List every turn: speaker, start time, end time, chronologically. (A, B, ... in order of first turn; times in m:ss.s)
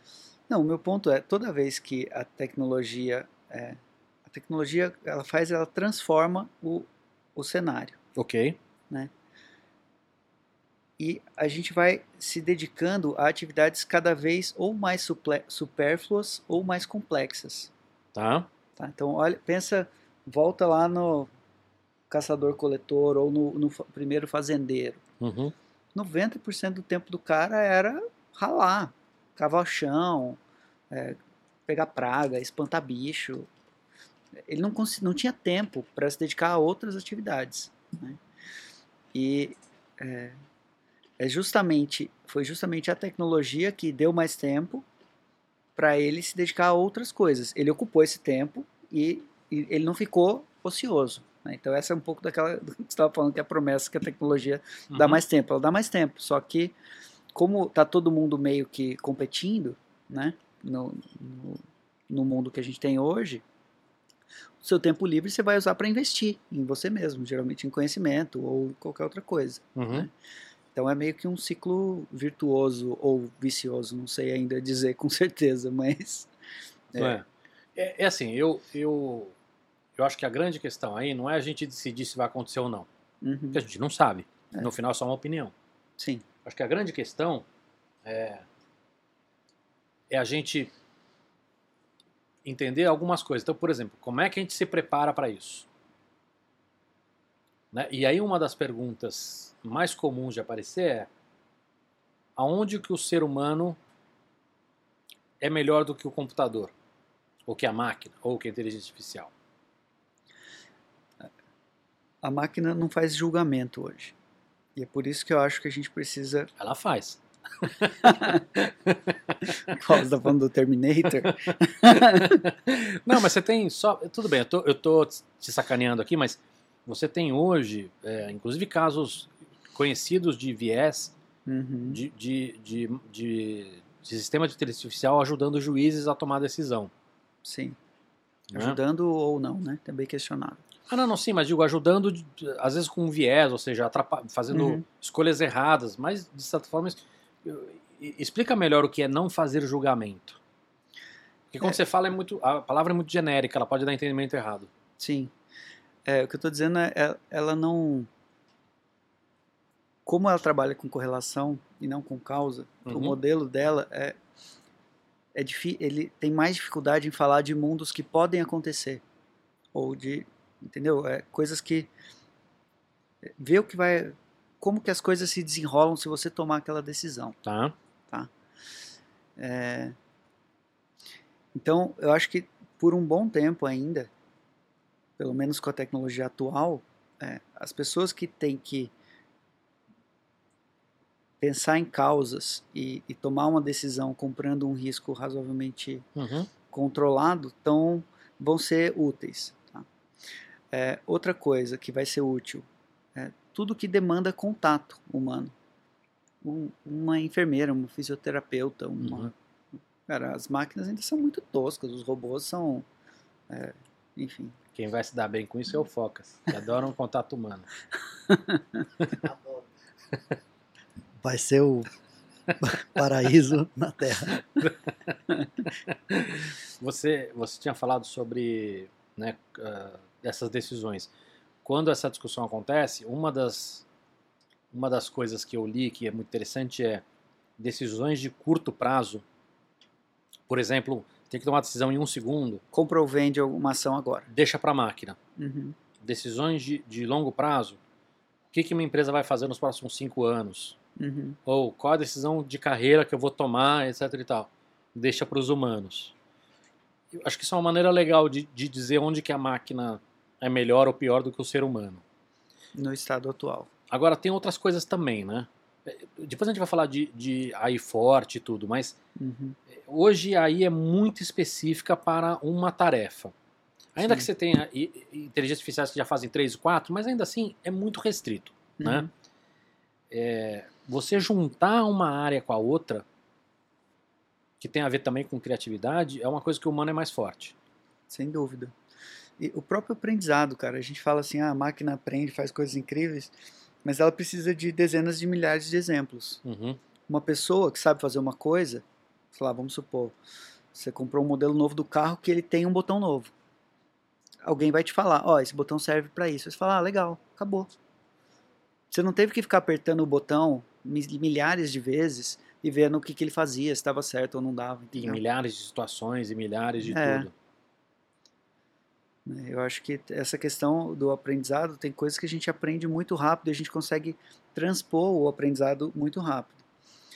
0:00.5-0:08.0 A
0:08.1-0:08.6 B
0:11.0-0:17.7 A
0:18.1-0:18.5 B
0:18.8-0:21.3 A
0:22.1-0:25.0 A
0:25.2-0:25.5 B
0:25.9-0:30.4 A
0:30.9-0:33.5 A
0:34.4-0:38.2 A
0:39.1-0:40.4 A
0:41.2-0:44.8 A
0:45.8-0:56.7 A
0:54.9-0:55.2 B
0:57.3-1:03.4 A
1:04.6-1:10.1 A
1:09.8-1:10.1 B
1:10.7-1:16.3 A
1:16.9-1:17.2 A
1:17.0-1:19.3 B
1:20.0-1:22.9 B
1:23.2-1:23.6 A
1:23.5-1:25.5 B
1:26.0-1:26.2 A
1:26.4-1:27.4 B
1:28.0-1:28.4 B
1:30.1-1:30.7 B
1:32.4-1:35.7 B
1:37.7-1:41.1 B
1:42.4-1:43.8 B
1:45.4-1:46.7 B
1:47.4-1:49.3 B
1:52.2-1:54.1 A
1:54.8-1:56.5 A
1:56.6-1:59.7 B
1:58.0-1:58.4 A
1:59.5-2:02.5 A
2:01.5-2:11.1 B
2:11.4-2:12.0 A
2:11.9-2:16.9 B
2:17.4-2:17.8 A
2:18.5-2:18.8 B
2:18.5-2:20.6 A
2:20.9-2:30.4 B
2:24.5-2:24.8 A
2:31.5-2:34.7 B
2:35.0-2:35.3 A
2:36.0-2:38.1 A
2:40.0-2:44.2 A
2:42.8-2:43.2 B
2:45.3-2:49.0 A
2:49.7-2:51.9 A
2:53.4-2:57.4 A
2:57.4-2:57.8 B
2:59.4-2:59.9 A
3:01.5-3:04.1 A
3:05.2-3:08.9 A
3:11.4-3:16.1 A
3:16.2-3:16.5 B
3:16.7-3:19.8 A
3:20.7-3:25.5 A
3:26.4-3:29.3 A
3:29.0-3:29.3 B
3:30.1-3:32.8 A
3:33.5-3:34.6 A
3:34.7-3:37.7 B
3:38.3-3:38.8 A
3:41.2-3:41.9 C
3:42.6-3:44.4 C
3:44.3-3:45.1 B
3:45.8-3:51.1 B
3:51.6-3:53.8 B
3:54.7-3:57.0 B
3:57.6-3:59.2 B
4:00.5-4:02.6 B
4:02.7-4:04.3 A
4:04.3-4:05.2 B
4:05.4-4:05.8 A
4:06.0-4:07.8 B
4:08.5-4:10.8 B
4:11.0-4:11.4 A
4:11.4-4:16.1 B
4:17.1-4:22.0 B
4:22.7-4:23.7 A
4:23.9-4:29.0 B
4:29.2-4:29.6 A
4:29.7-4:33.3 B
4:33.9-4:39.1 B
4:38.8-4:39.1 A
4:40.1-4:43.0 B
4:44.6-4:47.5 B
4:48.1-4:48.7 A
4:49.4-4:53.3 A
4:53.8-4:56.4 A
4:56.4-4:56.8 B
4:57.1-5:00.1 A
5:00.7-5:03.3 A
5:04.4-5:07.7 A
5:08.9-5:15.2 A
5:14.9-5:17.3 B
5:16.8-5:17.3 A
5:19.2-5:26.6 A